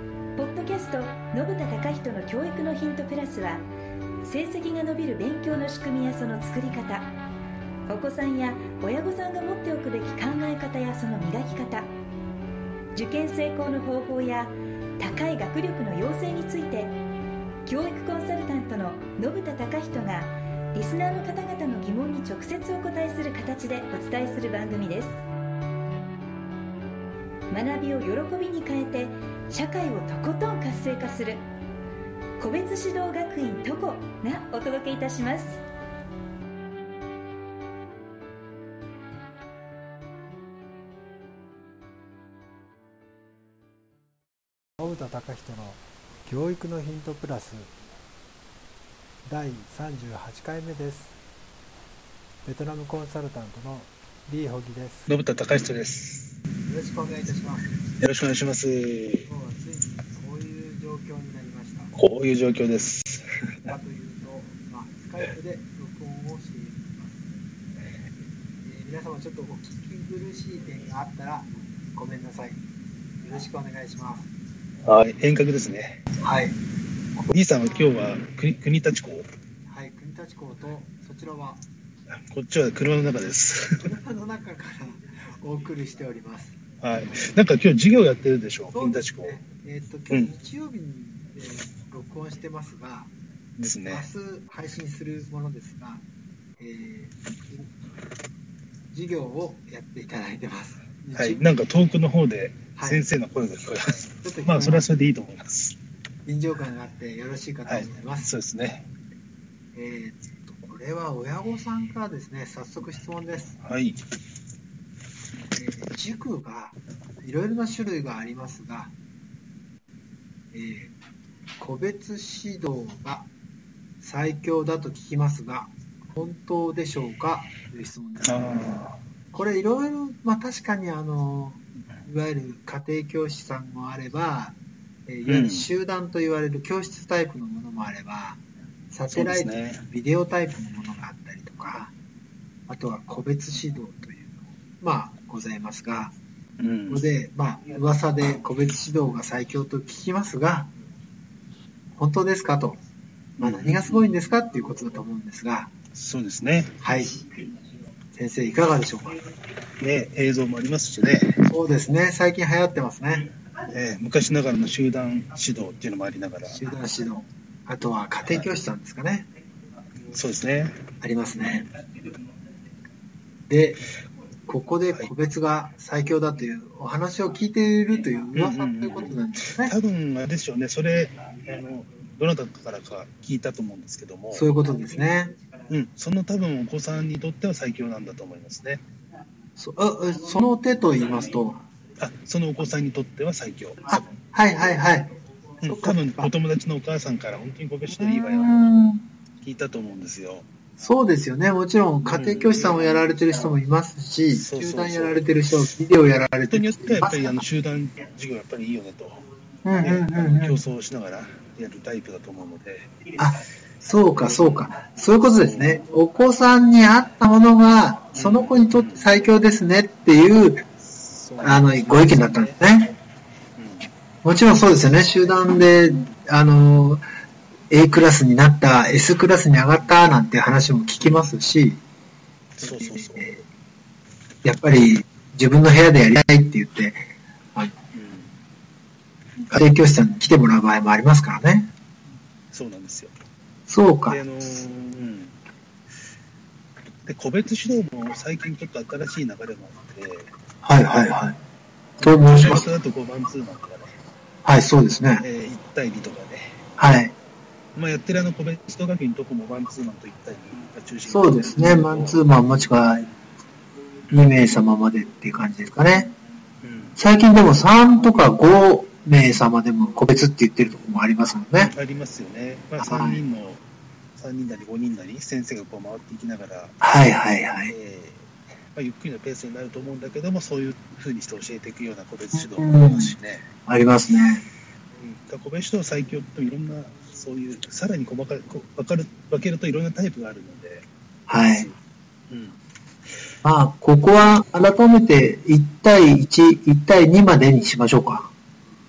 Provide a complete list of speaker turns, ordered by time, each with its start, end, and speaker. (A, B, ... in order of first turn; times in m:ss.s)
0:00.4-0:03.6 A
0:04.2-0:07.1 A
0:07.9-0:11.9 A
0:12.9-0:17.0 A
0:17.7-0:25.2 A
0:27.5-0:31.4 A
0:32.4-0:35.6 A
0:44.8-0:47.7 B
0:49.3-0:51.2 B
0:52.4-0:55.1 B
0:55.1-0:56.3 C
0:56.7-0:57.8 B
0:58.0-0:59.3 C
0:59.3-1:01.9 B
1:02.0-1:03.7 C
1:03.7-1:07.2 B
1:08.6-1:12.6 B
1:13.2-1:14.3 B
1:14.9-1:16.0 C
1:16.2-1:16.6 B
1:17.3-1:19.3 C
1:19.7-1:21.6 B
1:22.3-1:23.9 C
1:23.8-1:26.6 B
1:26.8-1:29.4 C
1:28.7-1:33.1 B
1:33.6-1:34.1 C
1:33.9-1:36.0 B
1:36.6-1:37.7 B
1:38.9-1:41.5 B
1:41.2-1:45.8 C
1:42.8-1:43.0 B
1:44.2-1:44.9 B
1:46.3-1:48.3 B
1:47.7-1:48.9 C
1:49.7-1:53.6 B
1:53.6-1:54.0 C
1:55.6-1:58.9 B
2:00.5-2:00.9 B
2:01.6-2:03.3 B
2:04.0-2:08.7 B
2:08.2-2:09.0 C
2:09.3-2:21.9 B
2:15.3-2:15.7 C
2:19.1-2:19.8 C
2:22.7-2:26.1 B
2:26.6-2:27.1 C
2:26.9-2:30.7 B
2:32.0-2:32.8 B
2:33.4-2:34.1 C
2:33.4-2:35.7 B
2:36.0-2:36.8 C
2:36.8-2:37.2 B
2:38.2-2:39.2 B
2:39.8-2:41.4 C
2:41.4-2:43.3 B
2:43.7-2:46.7 C
2:46.5-2:49.3 B
2:50.1-2:50.8 C
2:51.0-2:51.7 B
2:53.5-2:53.8 B
2:54.5-2:59.7 B
2:58.4-3:04.5 C
3:04.3-3:05.4 B
3:05.7-3:08.8 C
3:09.6-3:11.6 B
3:12.0-3:14.1 C
3:13.9-3:15.1 B
3:15.6-3:18.8 C
3:15.6-3:16.3 B
3:17.9-3:19.0 B
3:19.4-3:20.5 C
3:20.8-3:27.4 B
3:22.0-3:22.8 C
3:24.3-3:25.4 C
3:26.5-3:29.2 C
3:29.6-3:30.6 B
3:29.8-3:32.9 C
3:33.2-3:40.6 B
3:35.3-3:35.8 C
3:38.1-3:39.2 C
3:40.8-3:42.6 C
3:41.4-3:42.9 B
3:43.6-3:43.9 C
3:44.2-3:47.0 B
3:47.7-3:51.8 B
3:51.0-3:51.3 C
3:52.6-3:53.3 C
3:52.6-3:53.4 B
3:54.4-3:57.0 B
3:57.9-3:58.3 C
3:59.5-4:01.7 B
4:02.5-4:03.1 C
4:03.7-4:04.2 B
4:04.1-4:05.4 C
4:07.0-4:10.3 C
4:10.6-4:11.4 B
4:12.0-4:12.7 B
4:12.0-4:13.9 C
4:14.4-4:15.3 B
4:15.2-4:16.5 C
4:16.8-4:17.2 B
4:17.8-4:22.2 C
4:21.1-4:23.1 B
4:24.1-4:26.1 B
4:26.6-4:27.0 C
4:27.0-4:31.7 B
4:31.5-4:33.6 C
4:32.8-4:33.2 B
4:34.2-4:36.8 C
4:36.8-4:37.7 B
4:37.7-4:43.4 C
4:42.4-4:43.2 B
4:43.7-4:44.4 B
4:45.0-4:50.9 C
4:51.3-4:51.7 B
4:51.4-4:51.7 C
4:52.3-4:52.6 C
4:53.4-4:58.3 B